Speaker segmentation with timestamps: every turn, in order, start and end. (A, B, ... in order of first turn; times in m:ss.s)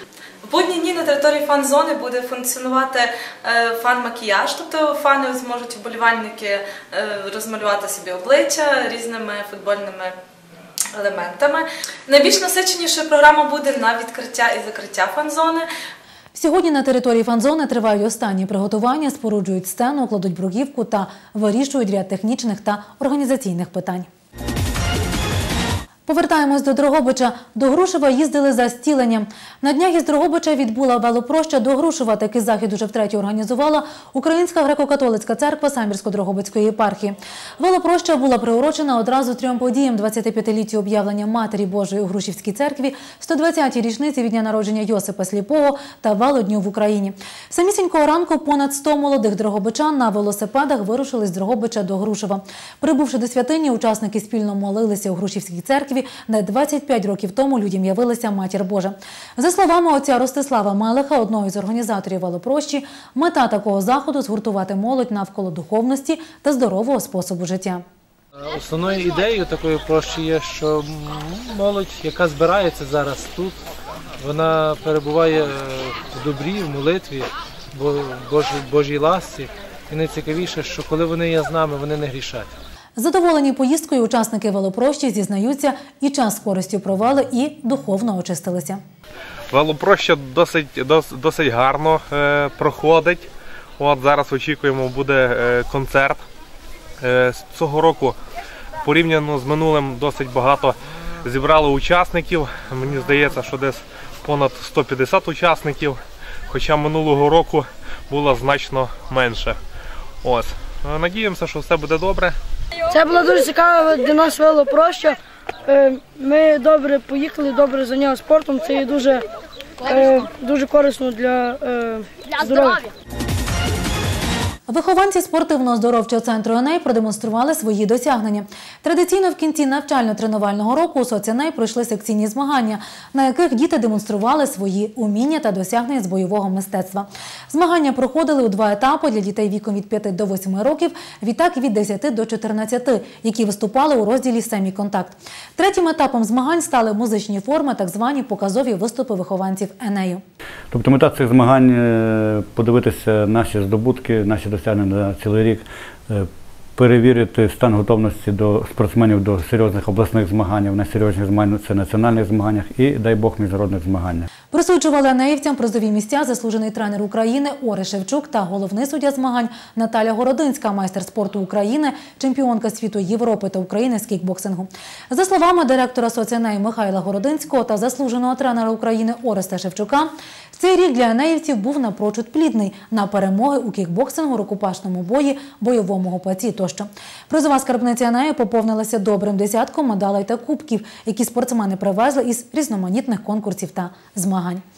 0:00.4-0:10.2 A
0:10.9-0:15.7 A
0:16.3-0:24.1 B
0:26.1-1:07.8 B
1:08.4-1:13.6 C
1:14.2-1:22.5 C
1:23.0-1:28.8 B
1:29.5-1:33.3 D
1:33.8-1:36.2 D
1:37.0-1:38.2 D
1:38.8-1:49.6 D
1:50.2-1:52.4 D
1:52.9-1:59.2 E
1:59.8-2:02.9 E
2:04.7-2:30.2 B
2:30.7-2:44.3 F
2:44.5-3:14.6 B